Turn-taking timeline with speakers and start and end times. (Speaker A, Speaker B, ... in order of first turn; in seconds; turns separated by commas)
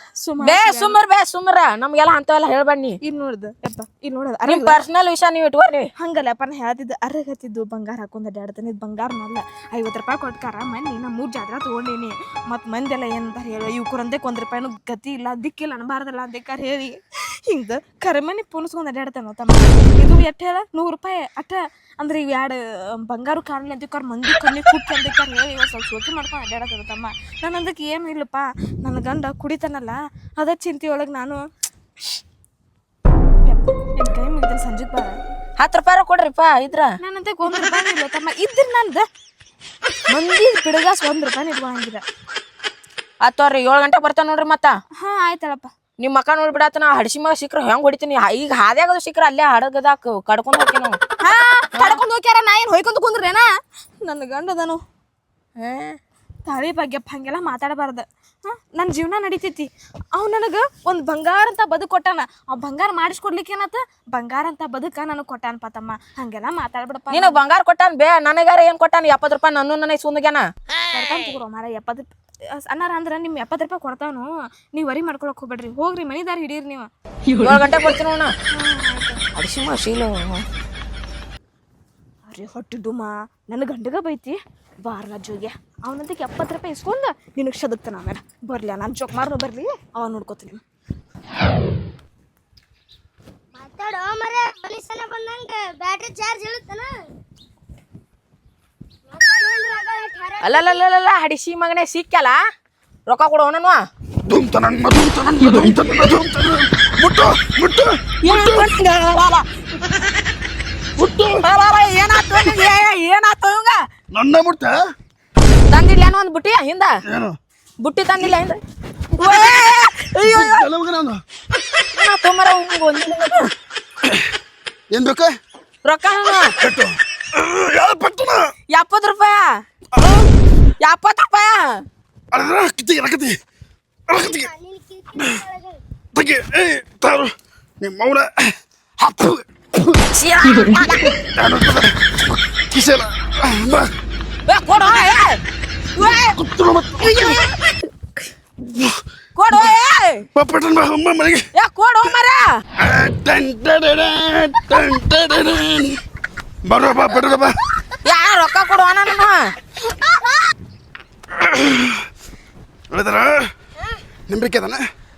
Speaker A: 0.2-1.0, Speaker B: 0.4-3.0, Speaker A: 3.0-4.8, Speaker B: 4.5-5.9, Speaker A: 6.0-31.4, Speaker A: 33.5-35.2, Speaker B: 35.6-36.9, Speaker A: 37.0-39.1, Speaker A: 40.1-42.0, Speaker B: 43.2-44.8, Speaker A: 45.0-45.7, Speaker B: 46.0-51.0, Speaker A: 51.2-53.5, Speaker A: 54.0-54.8, Speaker B: 55.6-56.0, Speaker A: 56.5-67.4, Speaker B: 67.1-70.5, Speaker A: 70.9-76.9, Speaker B: 77.4-78.3, Speaker A: 78.5-79.2, Speaker B: 79.3-80.4, Speaker A: 82.3-90.6, Speaker C: 93.5-96.9, Speaker C: 99.1-100.8, Speaker B: 100.4-102.4, Speaker B: 103.1-103.8, Speaker D: 104.2-108.7, Speaker B: 108.2-109.4, Speaker D: 111.0-111.4, Speaker B: 111.4-113.8, Speaker D: 114.1-114.8, Speaker B: 115.7-116.9, Speaker D: 117.1-117.4, Speaker B: 117.8-118.6, Speaker B: 119.2-120.6, Speaker D: 120.2-121.2, Speaker B: 121.9-123.5, Speaker D: 124.9-125.3, Speaker B: 125.8-126.5, Speaker D: 126.4-128.4, Speaker B: 128.7-129.5, Speaker D: 129.9-130.3, Speaker B: 130.8-131.8, Speaker D: 132.3-133.4, Speaker D: 134.1-134.5, Speaker C: 134.1-135.8, Speaker D: 136.1-140.0, Speaker B: 140.1-141.1, Speaker D: 141.3-143.9, Speaker B: 144.5-145.4, Speaker B: 146.0-146.3, Speaker D: 146.0-147.4, Speaker B: 147.0-147.6, Speaker D: 148.7-149.0, Speaker B: 149.4-150.2, Speaker D: 150.3-151.4, Speaker B: 151.6-152.5, Speaker D: 152.8-156.0, Speaker D: 156.7-157.6, Speaker B: 158.0-159.3, Speaker D: 161.3-162.1, Speaker D: 162.9-163.5, Speaker D: 164.3-164.8